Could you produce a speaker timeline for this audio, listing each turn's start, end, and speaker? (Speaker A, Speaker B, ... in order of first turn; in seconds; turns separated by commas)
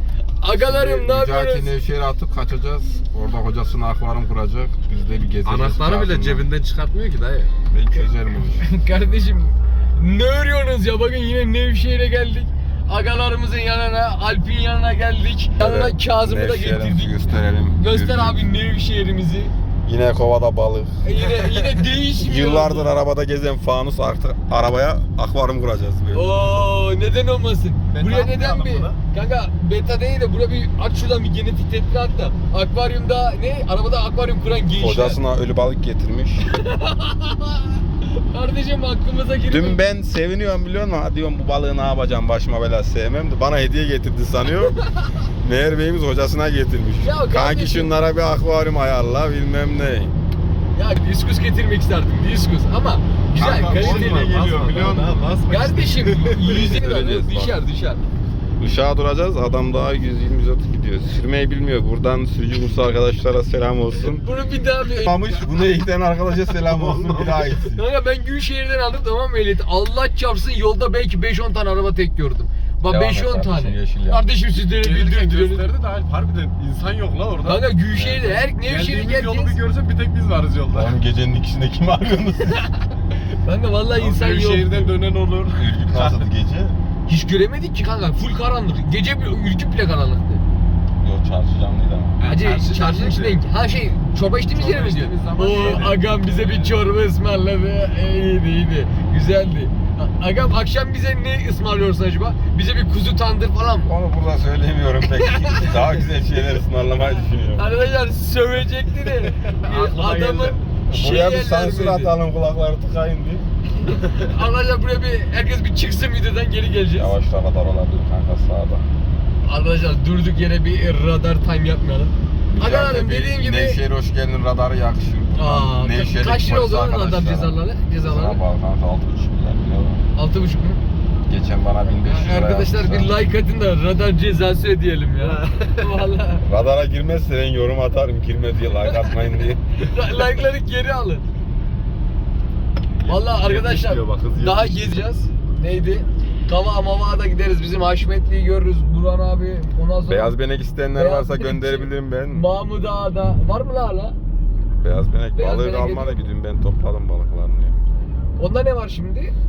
Speaker A: 0.4-1.7, Speaker B: 0.5-6.5, Speaker C: 5.4-7.5, Speaker B: 7.7-8.7, Speaker A: 8.5-19.5, Speaker B: 15.6-18.4, Speaker B: 19.8-21.0, Speaker A: 21.0-22.9, Speaker B: 22.1-26.3, Speaker A: 26.1-35.2, Speaker C: 27.9-29.0, Speaker B: 34.7-36.4, Speaker A: 36.5-39.8, Speaker B: 39.5-44.8, Speaker A: 44.9-45.2, Speaker B: 45.4-50.1, Speaker A: 47.0-47.9, Speaker A: 50.7-54.5, Speaker B: 53.4-55.3, Speaker C: 53.4-56.8, Speaker A: 55.5-58.0, Speaker B: 56.4-57.6, Speaker B: 58.6-64.2, Speaker A: 64.0-65.4, Speaker B: 64.9-67.8, Speaker C: 66.5-67.5, Speaker A: 67.7-75.7, Speaker B: 72.9-74.2, Speaker C: 74.7-77.7, Speaker A: 77.4-79.6, Speaker B: 77.9-78.4, Speaker C: 78.6-81.0, Speaker B: 80.7-82.7, Speaker A: 83.3-85.0, Speaker C: 83.9-86.3, Speaker B: 85.5-86.8, Speaker A: 87.1-90.4, Speaker B: 91.0-92.2, Speaker C: 92.2-93.4, Speaker A: 92.2-103.9, Speaker C: 94.5-96.8, Speaker B: 103.8-107.6, Speaker A: 105.1-105.8, Speaker A: 107.5-112.1, Speaker C: 109.5-110.6, Speaker B: 110.8-113.4, Speaker A: 113.8-117.1, Speaker B: 116.9-118.8, Speaker A: 119.4-123.8, Speaker B: 122.5-130.0, Speaker A: 125.3-128.4, Speaker A: 130.1-130.8, Speaker B: 131.3-133.2, Speaker A: 132.0-136.4, Speaker B: 136.4-139.7, Speaker A: 138.8-139.1, Speaker A: 139.7-141.2, Speaker C: 143.0-145.0, Speaker A: 143.1-150.3, Speaker B: 150.1-152.4, Speaker A: 150.9-154.2, Speaker B: 154.8-157.8, Speaker A: 155.3-156.2, Speaker A: 158.4-159.3